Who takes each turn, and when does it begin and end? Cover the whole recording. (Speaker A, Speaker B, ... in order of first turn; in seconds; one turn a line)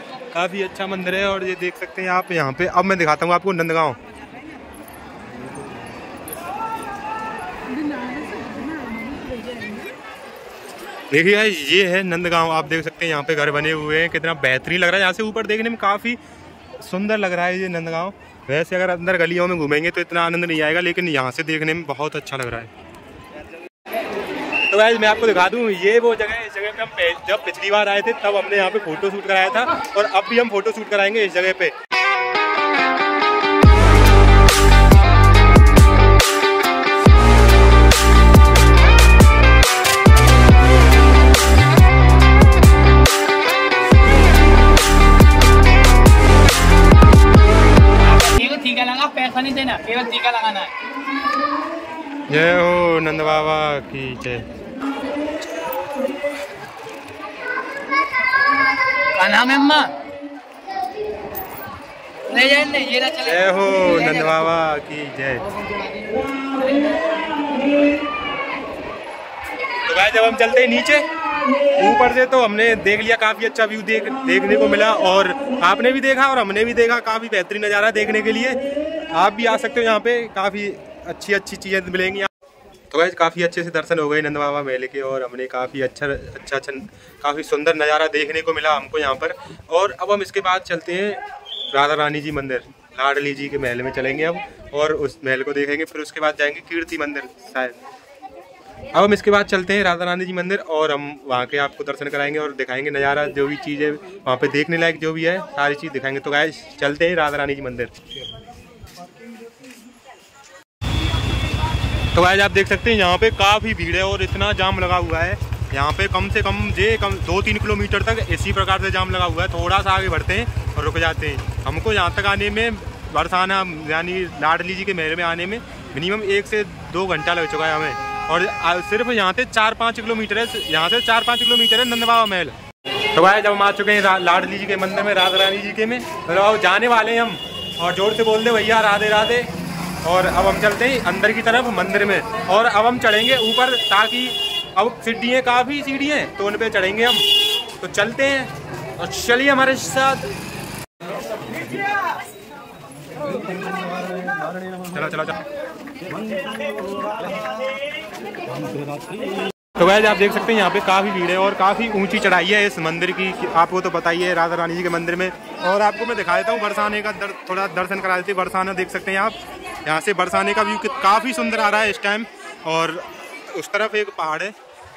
Speaker A: 0.3-4.0
Speaker B: 8.0-9.7
Speaker A: 11.1-16.2
Speaker A: 16.8-22.7
Speaker A: 24.7-31.7
Speaker B: 48.0-50.7
Speaker A: 52.3-54.5
Speaker B: 59.1-60.0
Speaker B: 62.3-63.4
Speaker A: 63.2-65.5
Speaker A: 69.9-71.1
Speaker A: 71.7-82.3
Speaker A: 82.9-97.8
Speaker A: 98.9-108.0
Speaker A: 112.1-132.6
Speaker A: 133.1-139.5
Speaker A: 140.0-147.3
Speaker A: 147.8-150.3
Speaker A: 154.9-155.4
Speaker A: 159.8-174.5